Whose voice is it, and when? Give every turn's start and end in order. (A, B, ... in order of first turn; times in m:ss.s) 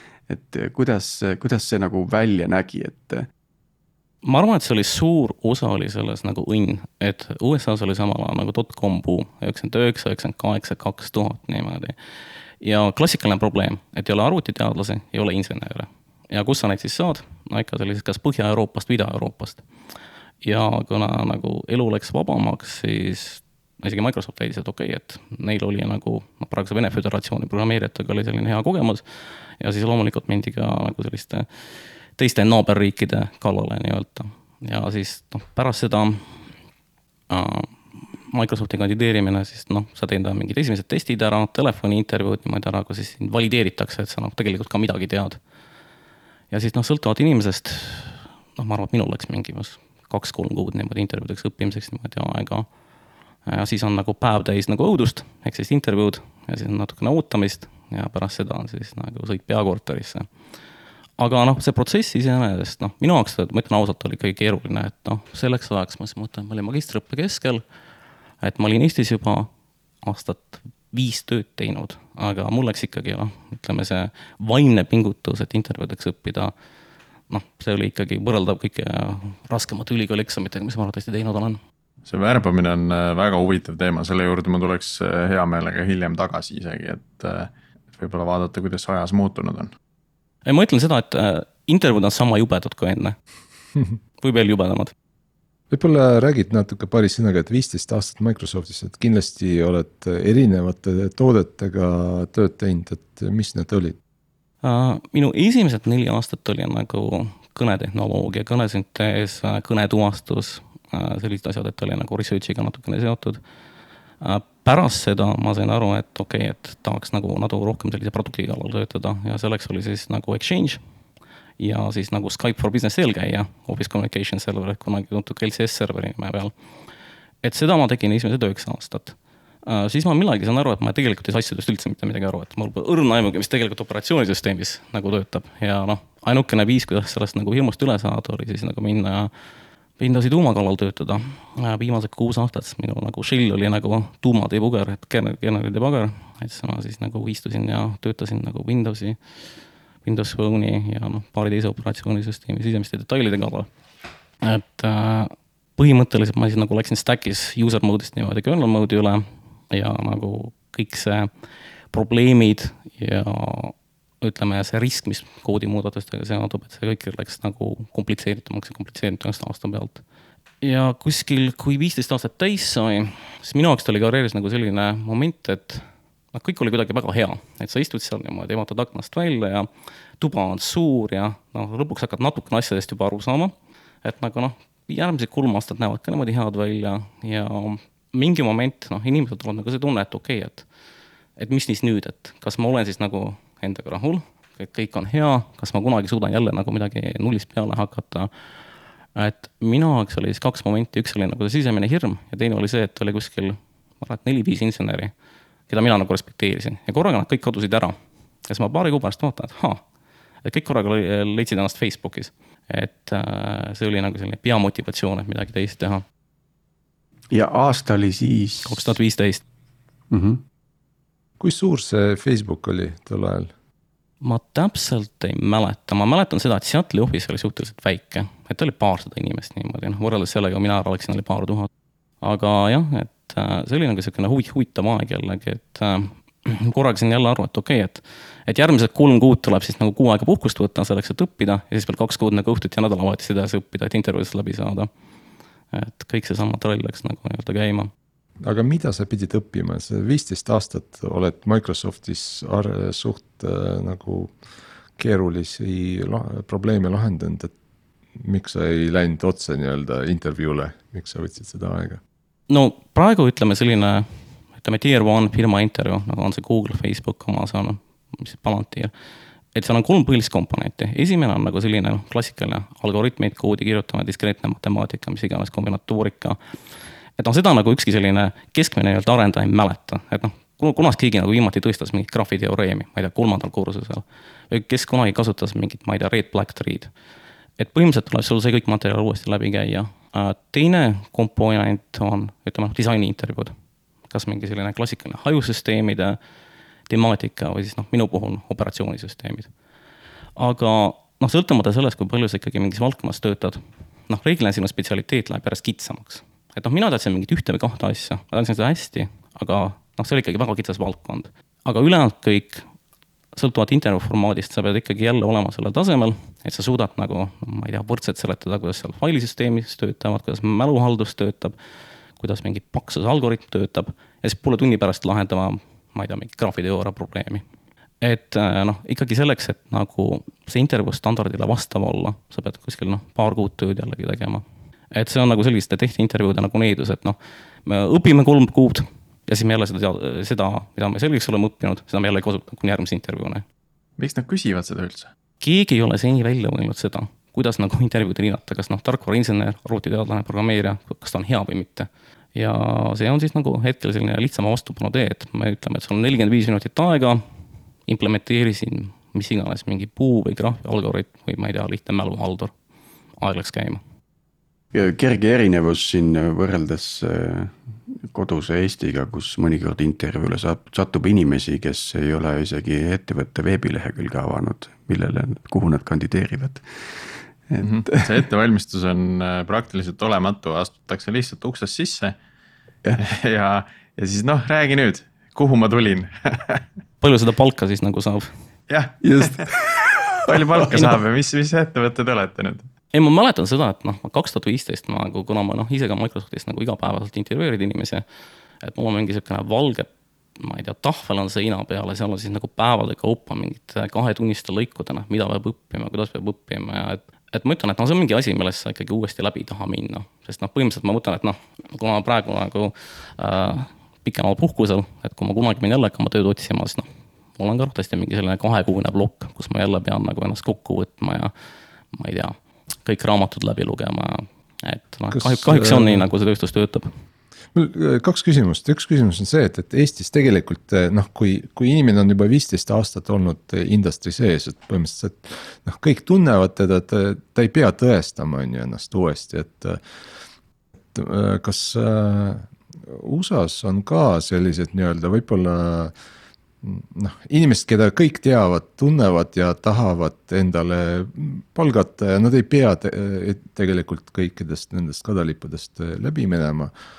0:00.3-0:03.3 A
0:04.2-0:11.9 B
0:12.6-0:19.6 B
0:20.4-0:29.0 B
0:29.6-0:31.5 B
0:32.2-0:36.2 B
0:37.3-0:37.7 B
0:38.3-0:45.4 B
0:46.5-0:52.7 B
0:53.4-1:00.3 B
1:01.2-1:07.6 B
1:08.4-1:09.5 B
1:10.0-1:16.5 B
1:17.3-1:21.6 B
1:22.1-1:29.7 C
1:30.4-1:33.2 B
1:34.2-1:34.9 B
1:35.7-1:44.0 D
1:44.6-1:53.4 B
1:54.2-2:00.8 B
2:01.6-2:06.5 B
2:07.4-2:19.3 B
2:20.0-2:29.2 B
2:30.0-2:33.7 B
2:34.4-2:41.3 B
2:41.9-2:50.0 B
2:50.6-2:59.7 B
3:00.2-3:10.6 B
3:11.4-3:18.3 B
3:19.1-3:25.1 B
3:25.7-3:27.9 B
3:28.4-3:29.8 B
3:30.4-3:36.0 B
3:37.3-3:39.0 A
3:38.6-3:39.4 B
3:40.1-3:40.4 A
3:41.4-3:43.5 D
3:44.2-3:51.7 B
3:52.2-4:04.9 B
4:05.7-4:07.9 B
4:08.4-4:14.3 D
4:15.0-4:17.5 D
4:18.2-4:22.0 D
4:22.5-4:28.9 B
4:29.5-4:36.4 B
4:37.2-4:46.9 B
4:47.6-4:53.5 B
4:54.1-4:56.2 B
4:56.9-4:59.5 B
5:00.4-5:12.6 B
5:13.4-5:21.6 B
5:22.2-5:27.4 B
5:28.0-5:43.4 B
5:44.0-5:45.1 C
5:45.4-5:57.2 B
5:57.9-6:02.5 B
6:03.2-6:03.8 B
6:04.7-6:18.0 A
6:17.6-6:22.2 C
6:23.0-6:26.6 C
6:27.0-6:28.3 B
6:28.7-6:29.4 C
6:29.0-6:30.9 A
6:30.2-6:32.7 C
6:32.9-6:38.0 B
6:38.6-6:56.9 B
6:57.4-7:01.3 B
7:01.9-7:06.9 B
7:05.1-7:06.1 D
7:07.5-7:19.8 D
7:20.9-7:25.9 D
7:26.6-7:36.7 D